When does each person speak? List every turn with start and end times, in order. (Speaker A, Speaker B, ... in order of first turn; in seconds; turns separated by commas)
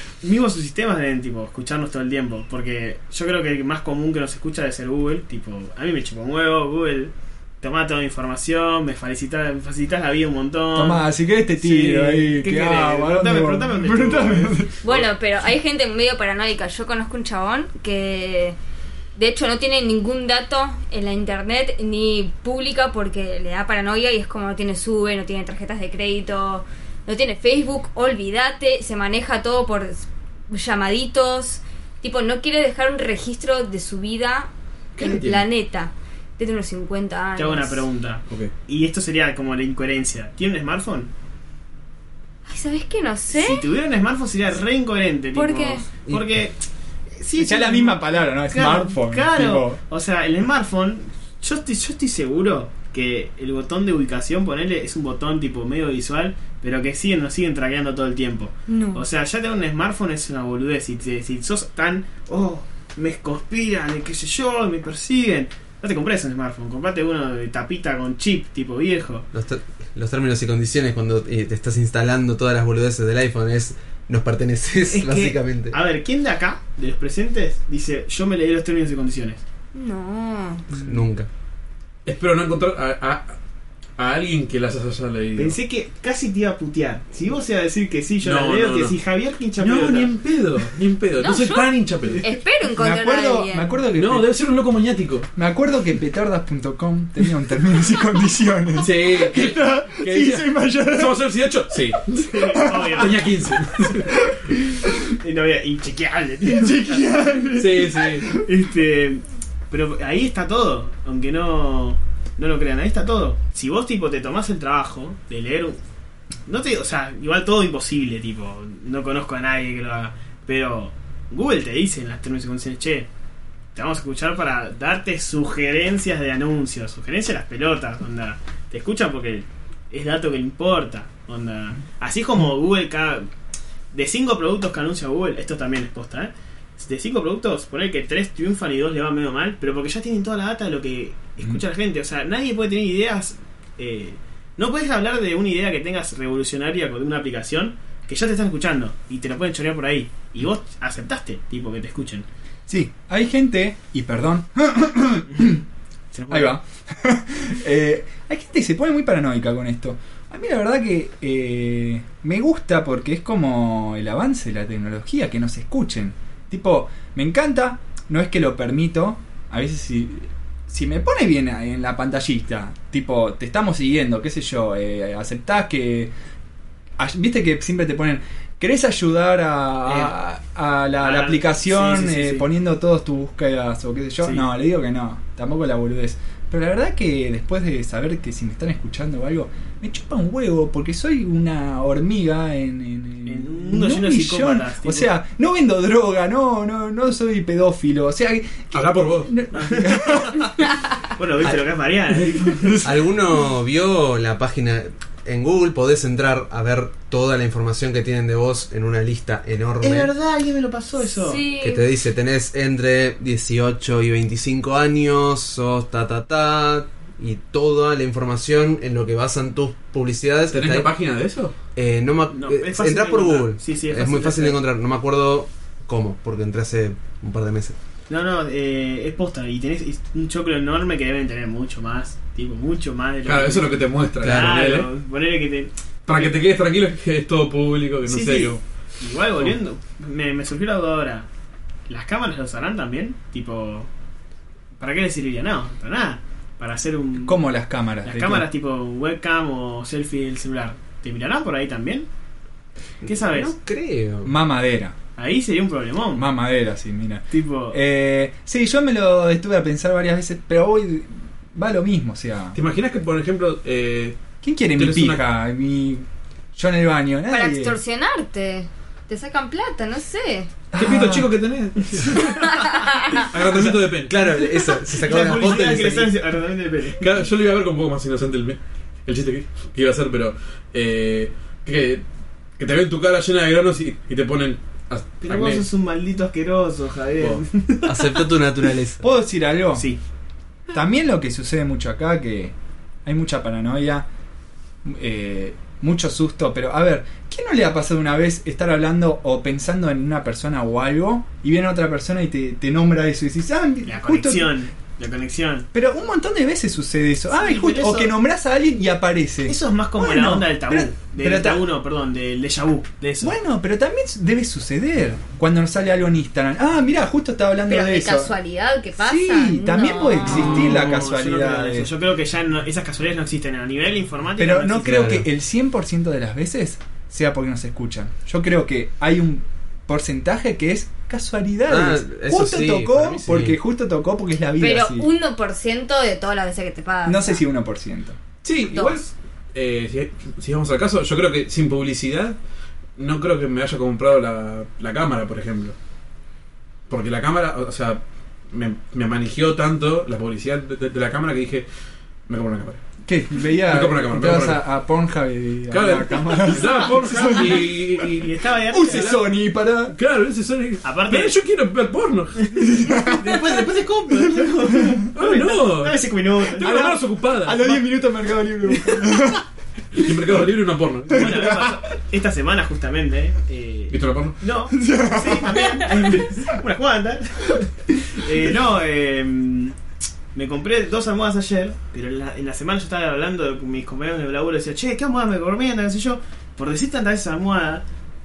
Speaker A: 0.2-11.0, Speaker B: 10.8-14.8, Speaker A: 11.6-15.0, Speaker C: 14.8-18.6, Speaker C: 19.1-37.9, Speaker D: 35.0-35.5, Speaker A: 37.4-41.1, Speaker C: 42.5-43.7, Speaker A: 43.3-46.6, Speaker C: 45.3-45.9, Speaker A: 47.1-69.3, Speaker B: 47.4-49.8, Speaker C: 58.7-59.0, Speaker E: 69.3-75.7, Speaker A: 74.9-79.4, Speaker C: 79.7-80.7, Speaker E: 80.7-81.3, Speaker D: 82.0-83.3, Speaker D: 84.0-85.5, Speaker A: 85.3-90.1, Speaker D: 88.2-89.0, Speaker D: 89.6-92.2, Speaker C: 91.2-91.7, Speaker C: 92.2-93.7, Speaker B: 92.7-94.3, Speaker D: 93.9-95.3, Speaker B: 95.3-101.2, Speaker D: 98.8-104.1, Speaker A: 102.2-103.3, Speaker B: 102.3-103.0, Speaker B: 103.8-105.1, Speaker A: 105.1-107.2, Speaker B: 106.5-108.5, Speaker D: 107.5-108.3, Speaker A: 108.2-115.8, Speaker A: 116.5-123.1, Speaker A: 123.7-133.3, Speaker A: 133.9-152.2, Speaker B: 152.7-155.6, Speaker A: 155.3-155.6, Speaker A: 156.1-156.6, Speaker B: 156.3-176.1, Speaker B: 177.0-200.5, Speaker A: 179.8-180.1, Speaker A: 181.0-182.5, Speaker A: 184.2-184.5, Speaker A: 193.2-195.1, Speaker D: 198.7-199.3, Speaker A: 199.5-202.8, Speaker B: 202.5-203.0, Speaker E: 202.8-210.1, Speaker A: 209.8-211.4, Speaker C: 211.1-211.9, Speaker E: 211.6-220.9, Speaker D: 220.5-221.5, Speaker E: 221.7-227.8, Speaker A: 222.3-224.6, Speaker A: 228.1-236.3, Speaker D: 233.2-234.9, Speaker E: 234.2-234.6, Speaker D: 236.1-238.6, Speaker A: 238.1-241.3, Speaker A: 241.9-243.9, Speaker A: 244.8-247.4, Speaker B: 247.2-248.5, Speaker A: 248.0-252.1, Speaker A: 253.0-253.5, Speaker E: 253.0-254.3, Speaker B: 254.2-254.9, Speaker A: 255.2-256.2, Speaker B: 256.1-262.6, Speaker A: 257.3-257.8, Speaker D: 262.5-264.2, Speaker B: 264.4-267.8, Speaker D: 264.8-265.2, Speaker C: 267.3-270.5, Speaker B: 270.7-271.3, Speaker D: 270.7-274.1, Speaker A: 271.8-272.3, Speaker C: 272.4-273.2, Speaker E: 273.4-276.1, Speaker A: 274.9-277.0, Speaker D: 277.0-282.0, Speaker D: 282.6-285.6, Speaker A: 285.2-288.2, Speaker E: 287.8-289.0, Speaker B: 289.0-289.9, Speaker A: 289.7-290.0, Speaker B: 290.7-294.1, Speaker B: 294.8-304.6, Speaker A: 303.8-305.7, Speaker B: 305.7-311.6, Speaker A: 307.3-308.1, Speaker A: 309.5-313.4, Speaker B: 313.2-318.3, Speaker C: 317.7-320.6, Speaker B: 319.0-321.9, Speaker A: 320.3-325.1, Speaker B: 324.4-335.1, Speaker E: 324.8-325.2, Speaker E: 331.7-333.6, Speaker C: 334.6-337.4, Speaker B: 337.1-338.2, Speaker D: 338.4-342.4, Speaker C: 338.7-339.0, Speaker D: 343.0-345.8, Speaker D: 346.9-351.7, Speaker D: 352.3-352.8, Speaker B: 353.1-357.6, Speaker D: 353.6-354.6, Speaker D: 355.7-359.2, Speaker A: 356.7-359.2, Speaker B: 358.7-359.9, Speaker D: 359.9-362.7, Speaker A: 360.8-361.4, Speaker A: 362.5-367.1, Speaker B: 362.7-363.5, Speaker B: 364.1-365.0, Speaker D: 365.1-367.7, Speaker B: 367.4-369.4, Speaker A: 368.6-369.3, Speaker D: 369.9-371.5, Speaker B: 371.1-371.7, Speaker A: 371.1-379.8, Speaker D: 373.9-374.4, Speaker B: 374.7-375.9, Speaker A: 380.3-387.8